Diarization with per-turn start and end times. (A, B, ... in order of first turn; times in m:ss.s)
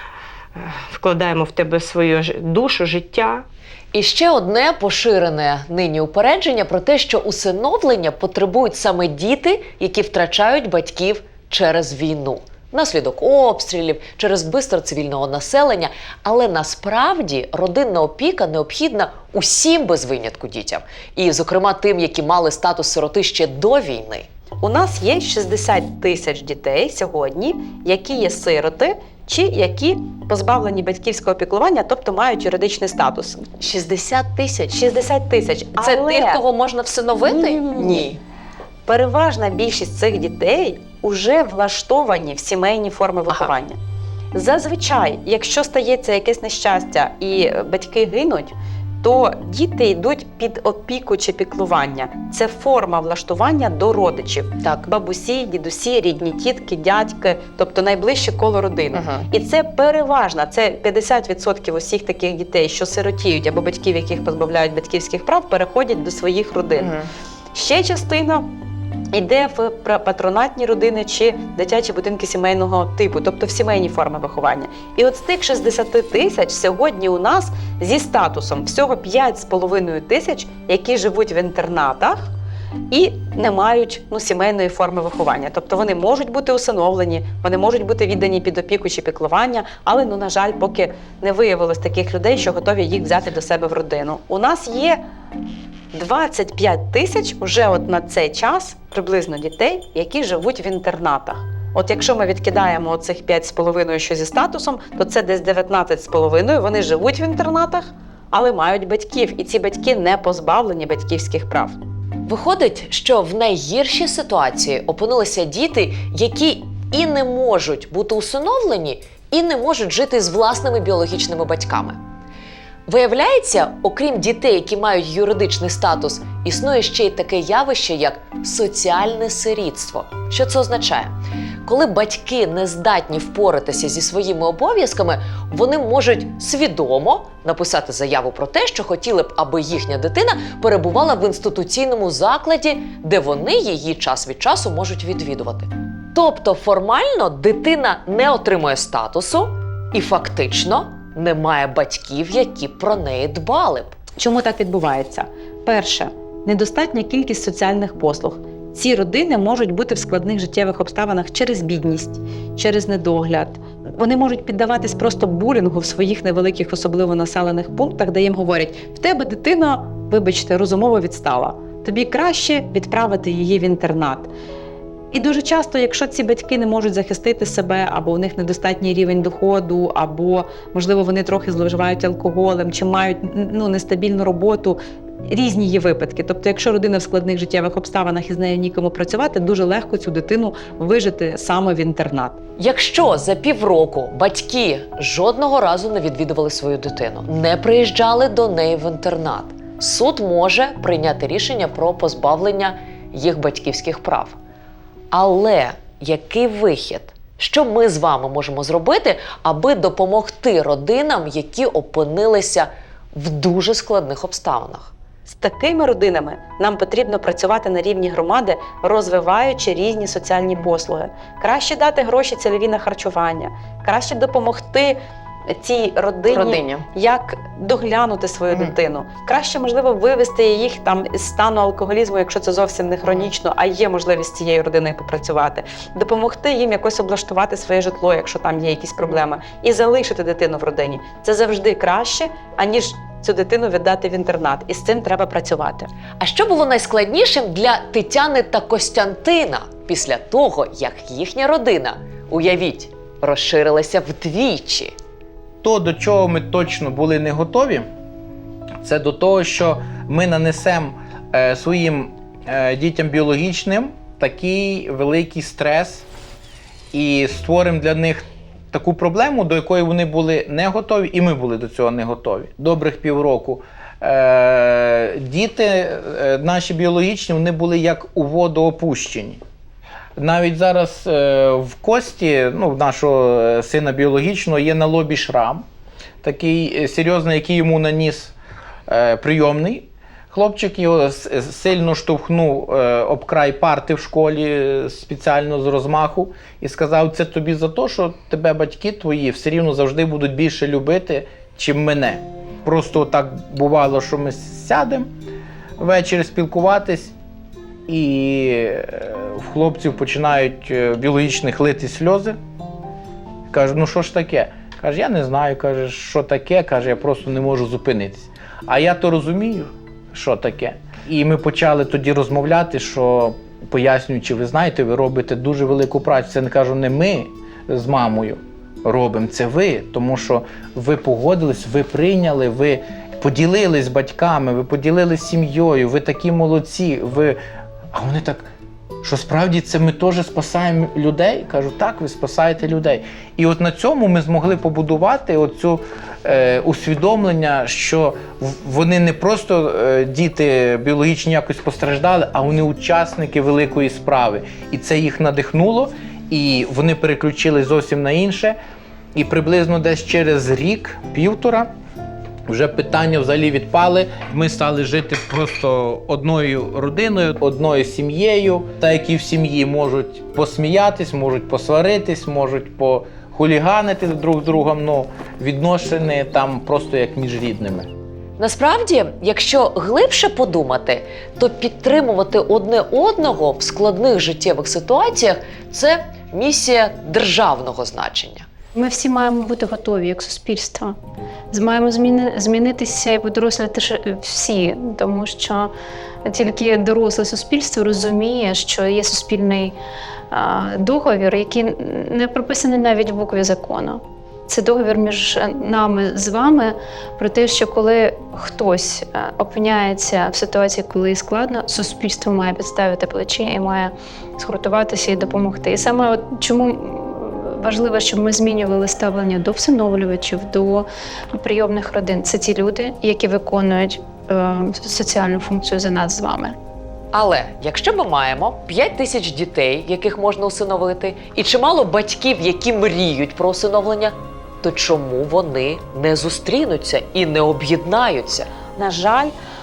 0:00.6-0:03.4 A
0:03.9-0:24.3 B
0:24.6-0:33.5 C
0:33.6-0:34.8 B
0:34.7-0:36.4 C
0:35.8-0:38.2 B
0:37.3-0:38.1 C
0:38.9-0:43.8 C
0:44.3-1:07.0 C
0:59.0-0:59.2 B
1:07.5-1:08.5 C
1:09.1-1:22.3 C
1:22.9-1:35.0 C
1:35.9-1:51.8 C
1:52.2-2:02.0 B
2:02.9-2:34.0 B
2:34.2-2:54.3 C
2:55.1-3:12.4 C
3:12.6-3:24.4 B
3:25.1-3:34.9 B
3:35.2-4:05.9 C
3:46.5-3:46.8 B
4:06.2-4:14.9 B
4:15.6-4:17.9 D
4:18.8-4:26.0 D
4:26.9-4:39.4 D
4:40.2-4:45.6 D
4:46.2-4:48.3 D
4:48.9-5:05.1 D
5:05.8-5:07.1 D
5:07.9-5:12.4 D
5:13.5-5:37.4 D
5:37.9-5:38.4 D
5:39.0-5:58.6 D
5:59.1-6:01.7 D
6:02.5-6:17.9 D
6:18.4-6:28.5 B
6:28.8-6:31.0 E
6:31.5-6:35.7 E
6:36.2-6:39.8 E
6:40.3-7:06.6 E
7:07.1-7:18.5 B
7:18.8-7:19.3 C